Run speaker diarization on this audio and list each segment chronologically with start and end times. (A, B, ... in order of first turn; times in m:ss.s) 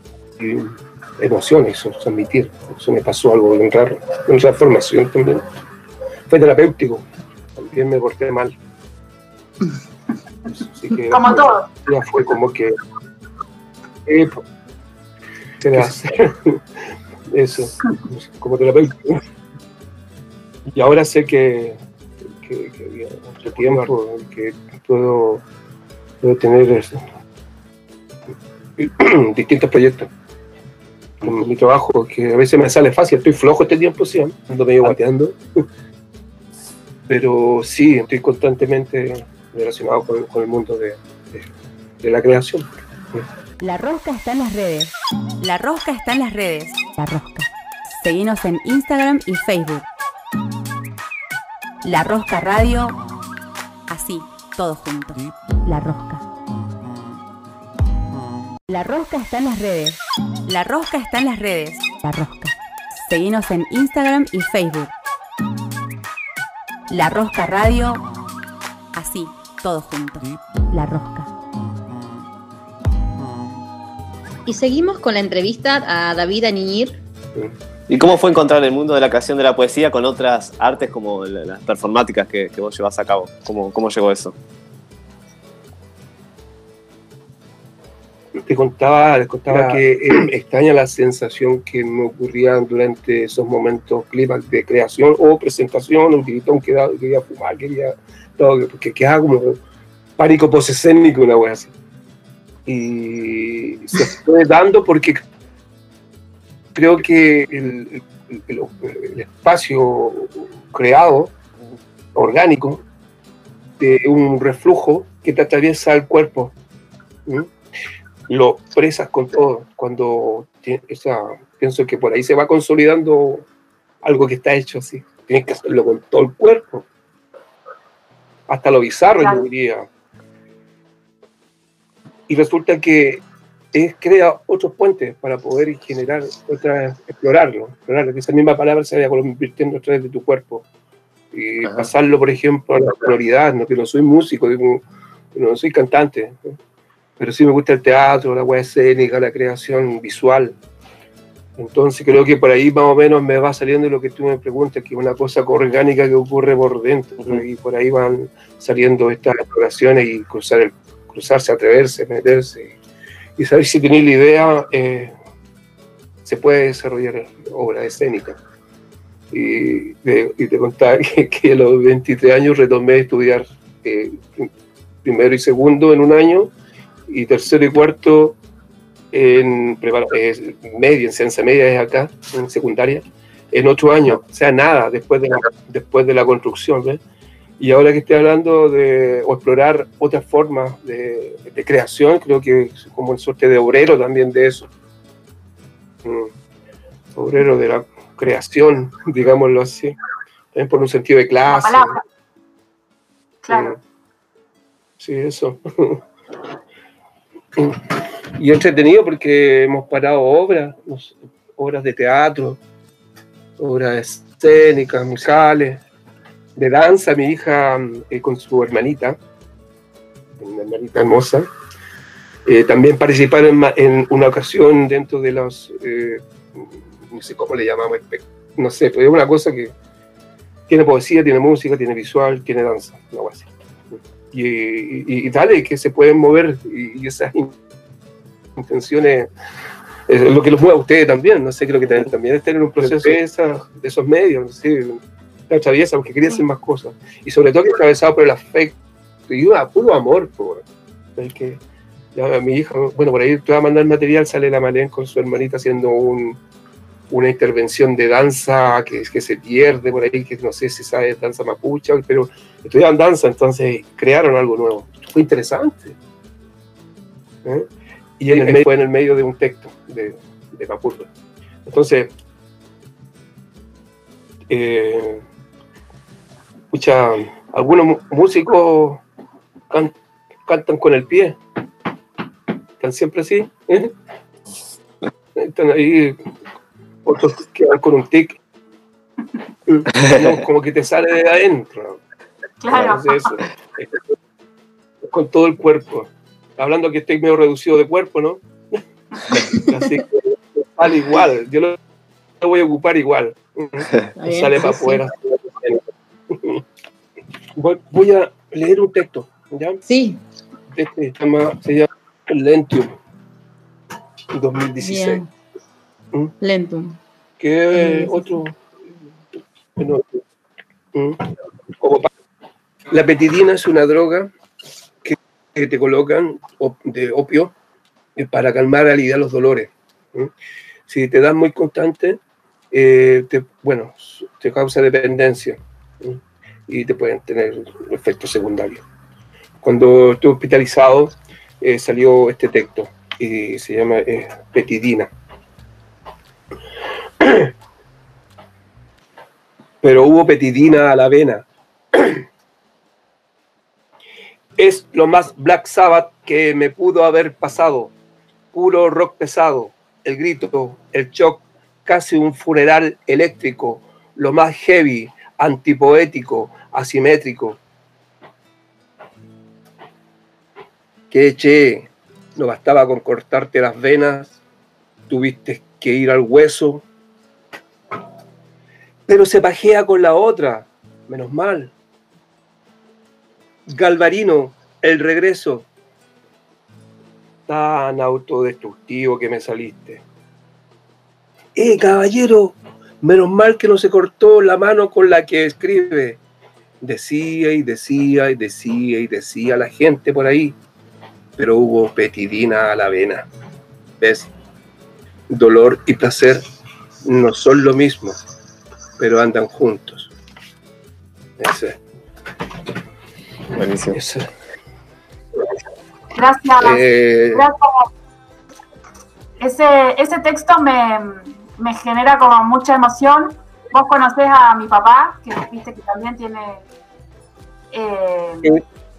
0:00.4-0:05.4 A
0:06.3-0:07.0 A
0:07.6-0:08.5 A
0:10.5-0:12.7 A
0:11.1-0:11.7 B
0:14.0-0:14.4 A
0:15.6-0:16.6 A
0:17.3-0:19.2 A
0:20.7-0:21.8 A
0:22.4-0:25.4 A
0:26.2-0:27.0 A
0:28.8-0:30.1 A
0:31.2-0:35.4 A
0:37.1-0:41.5 A
0:42.0-0:43.2 A
0:43.6-0:49.9 C
0:51.8-0:53.0 C
0:53.9-0:56.2 C
0:58.7-1:04.9 C
1:06.9-1:08.0 C
1:08.9-1:11.3 C
1:14.4-1:17.0 D
1:17.9-1:24.4 E
1:28.4-1:39.6 A
1:40.2-1:41.7 A
1:42.6-1:45.2 A
1:46.7-1:51.3 A
1:52.1-1:52.8 A
1:53.8-1:56.5 A
1:57.2-1:57.5 A
1:58.3-2:03.4 A
2:04.0-2:06.9 A
2:08.5-2:09.9 A
2:12.3-2:20.6 A
2:21.3-2:24.8 A
2:25.3-2:26.6 A
2:27.2-2:30.6 A
2:31.6-2:42.8 A
2:43.4-2:45.1 A
2:46.2-2:48.4 A
2:49.3-2:54.5 A
2:55.0-2:56.5 A
2:57.1-2:58.4 A
2:59.1-3:07.0 A
3:07.6-3:14.7 A
3:16.0-3:16.3 A
3:17.2-3:20.0 A
3:20.5-3:22.0 A
3:21.5-3:22.0 B
3:23.4-3:23.8 B
3:23.5-3:23.8 A
3:25.0-3:26.0 A
3:27.6-3:27.8 A
3:28.4-3:32.6 A
3:33.6-3:35.8 A
3:36.6-3:39.2 A
3:40.3-3:41.5 A
3:42.4-3:49.7 A
3:50.7-3:57.5 A
3:58.6-3:59.3 A
4:00.1-4:08.8 A
4:09.3-4:10.6 A
4:11.2-4:11.6 A
4:12.1-4:16.4 A
4:17.1-4:26.0 A
4:28.2-4:31.1 A
4:31.6-4:32.1 A
4:34.5-4:35.2 A
4:36.7-4:39.0 A
4:40.4-4:41.4 A
4:42.8-4:43.9 A
4:45.4-4:46.2 A
4:47.0-4:48.4 A
4:49.7-4:52.0 A
4:52.6-4:53.3 B
4:52.7-4:54.0 A
4:55.0-4:58.4 A
4:59.4-5:01.8 A
5:02.4-5:06.6 A
5:04.2-5:05.0 D
5:07.6-5:09.8 A
5:09.9-5:10.2 D
5:10.7-5:13.0 A
5:14.3-5:15.2 A
5:14.8-5:15.3 D
5:16.4-5:17.0 D
5:17.4-5:18.6 A
5:17.7-5:18.4 D
5:19.8-5:20.2 A
5:20.9-5:21.3 A
5:21.8-5:22.1 A
5:22.9-5:24.3 A
5:25.0-5:27.5 A
5:28.2-5:30.3 A
5:30.9-5:32.2 A
5:32.7-5:38.8 A
5:39.6-5:45.1 A
5:47.2-5:47.5 A
5:49.8-5:52.2 A
5:54.6-5:57.9 A
5:58.5-6:07.6 A
6:11.1-6:14.4 A
6:15.1-6:16.8 A
6:19.1-6:21.7 A
6:23.7-6:25.7 A
6:27.5-6:30.0 A
6:31.5-6:36.2 A
6:36.8-6:40.6 A
6:41.4-6:43.3 A
6:44.0-6:44.3 A
6:45.3-6:46.4 A
6:47.0-6:48.2 A
6:49.0-6:50.1 A
6:51.4-6:51.8 A
6:53.6-6:54.0 E
6:53.9-6:54.3 A
6:56.1-6:57.8 B
6:56.6-6:57.4 A
6:59.4-7:06.6 B
7:07.7-7:08.6 B